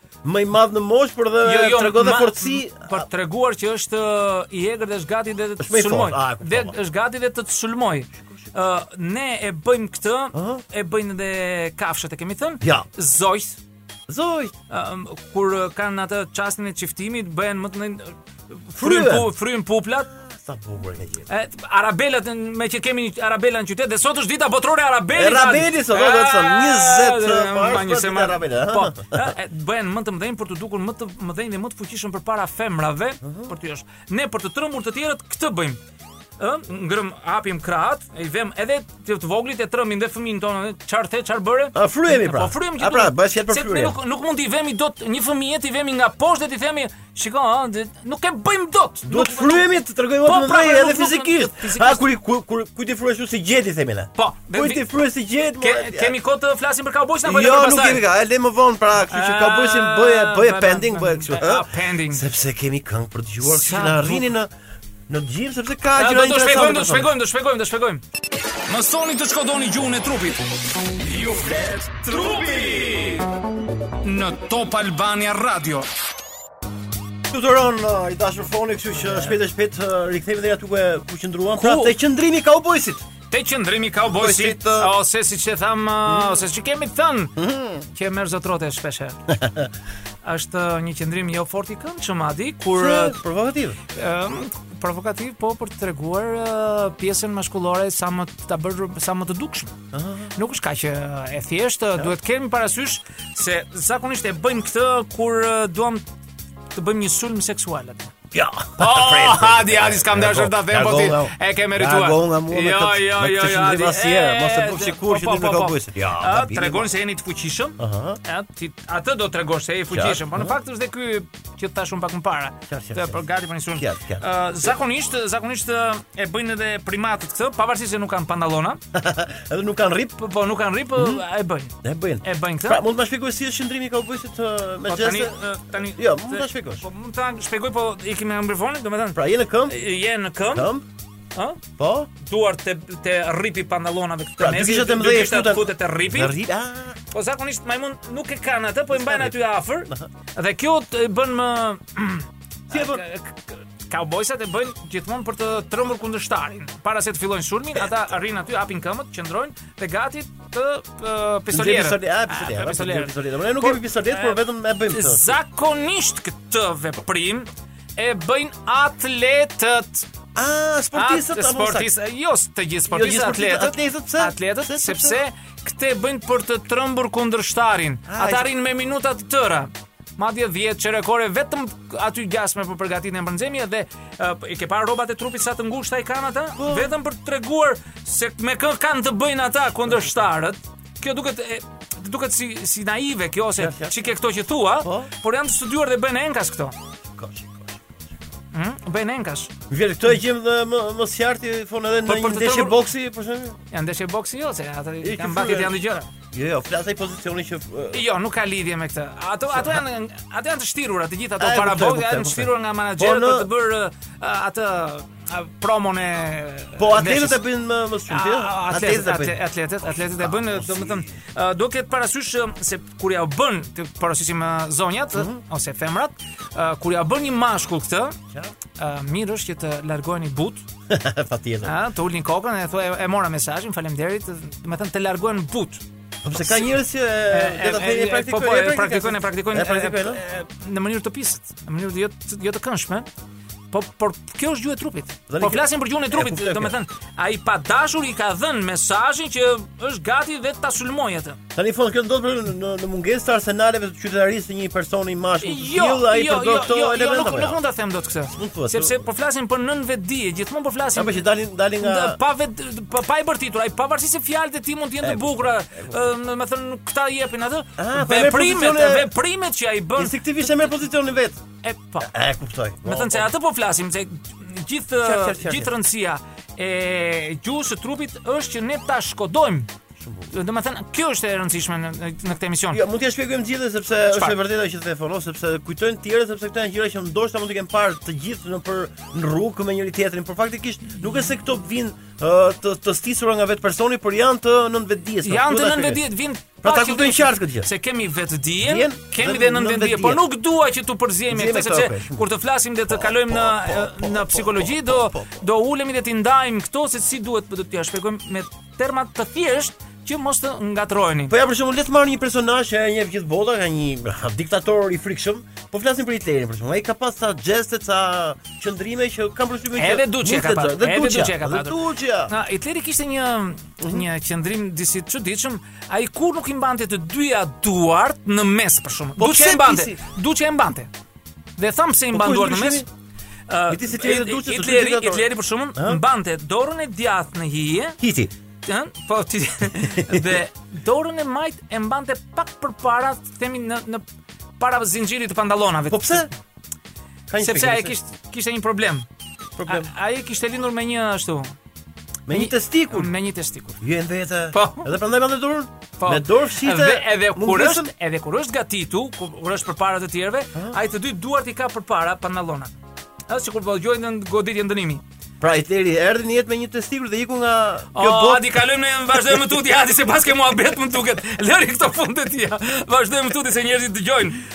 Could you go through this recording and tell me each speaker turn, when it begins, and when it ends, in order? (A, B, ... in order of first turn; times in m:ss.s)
0:00.2-0:03.1 A
0:01.4-0:13.6 B
0:05.6-0:06.8 A
0:10.3-0:10.6 A
0:14.1-0:14.5 A
0:14.7-0:20.1 B
0:18.8-0:19.3 A
0:20.1-0:21.3 A
0:21.3-0:35.8 B
0:25.1-0:29.3 A
0:33.2-0:33.5 A
0:36.4-0:49.7 B
0:41.7-0:44.0 A
0:49.0-0:56.1 A
0:50.2-0:52.0 B
0:54.2-0:54.9 B
0:55.6-0:58.0 B
0:57.2-1:04.5 A
0:59.1-1:02.2 B
1:03.4-1:04.3 B
1:05.1-1:07.1 A
1:06.0-1:08.0 B
1:08.7-1:10.5 B
1:11.1-1:13.1 A
1:14.0-1:15.8 B
1:17.3-1:23.0 A
1:21.6-1:21.9 B
1:23.3-1:27.4 B
1:24.0-1:24.9 A
1:26.0-1:26.4 A
1:27.4-1:27.8 A
1:27.9-1:29.2 B
1:29.3-1:29.7 A
1:30.2-1:33.2 B
1:32.7-1:33.8 A
1:33.9-1:39.8 B
1:39.9-1:40.3 A
1:40.3-1:46.0 B
1:46.7-1:48.1 B
1:48.3-1:56.9 A
1:48.8-2:08.8 B
1:57.8-1:58.2 A
1:59.9-2:00.6 A
2:02.7-2:03.2 A
2:03.7-2:04.7 A
2:08.9-2:10.2 A
2:10.2-2:12.8 B
2:10.9-2:11.2 A
2:11.8-2:16.8 A
2:14.9-2:20.7 B
2:19.1-2:19.8 A
2:20.5-2:20.8 A
2:21.3-2:21.6 B
2:21.8-2:22.1 A
2:22.2-2:26.3 B
2:24.4-2:27.0 A
2:27.1-2:50.1 B
2:28.9-2:29.3 A
2:32.7-2:33.0 A
2:41.5-2:45.4 A
2:50.3-2:51.9 A
2:50.9-3:16.8 B
2:52.9-2:55.2 A
2:58.1-2:58.5 A
3:06.6-3:06.9 A
3:13.6-3:14.1 A
3:14.8-3:15.1 A
3:17.1-3:18.1 A
3:18.5-3:19.5 B
3:19.7-3:23.6 A
3:22.0-3:22.8 B
3:23.7-3:26.1 B
3:25.0-3:25.8 A
3:26.3-3:28.0 A
3:27.9-3:37.4 B
3:29.5-3:29.8 A
3:31.4-3:33.5 A
3:36.8-3:41.2 A
3:38.1-3:48.2 B
3:45.1-3:45.4 A
3:48.8-3:50.6 B
3:50.9-3:51.7 A
3:51.6-3:55.8 B
3:56.2-4:00.2 A
3:56.3-3:56.7 B
3:57.3-4:03.1 B
4:03.7-4:11.4 B
4:05.3-4:06.7 A
4:11.5-4:17.6 A
4:15.4-4:21.2 B
4:18.3-4:19.0 A
4:20.9-4:22.2 A
4:21.8-4:30.2 B
4:25.0-4:26.0 A
4:27.8-4:29.1 A
4:30.0-4:31.4 A
4:31.6-4:32.1 B
4:32.0-4:33.3 A
4:32.8-4:39.7 B
4:35.0-4:35.7 A
4:40.0-4:40.3 A
4:40.3-4:42.8 B
4:42.7-4:56.0 A
4:44.1-4:44.4 B
4:55.2-5:11.3 B
4:56.6-4:57.7 A
4:58.6-5:00.2 A
5:01.3-5:02.3 A
5:02.9-5:05.4 A
5:11.3-5:22.3 A
5:19.7-5:30.9 B
5:23.8-5:24.0 A
5:29.2-5:30.0 A
5:31.6-5:32.8 B
5:32.1-5:32.9 A
5:33.5-5:38.0 B
5:33.7-5:36.0 A
5:38.0-5:38.3 A
5:38.6-5:44.0 B
5:40.0-5:40.3 A
5:44.6-5:46.3 B
5:45.9-5:46.3 A
5:47.3-5:48.0 A
5:47.4-5:49.0 B
5:49.6-5:49.9 A
5:49.6-5:51.5 B
5:52.3-5:53.1 A
5:52.3-5:53.8 B
5:53.8-5:57.9 A
5:54.5-5:54.9 B
5:56.0-6:02.7 B
6:03.3-6:05.0 B
6:05.4-6:08.6 A
6:07.9-6:14.4 B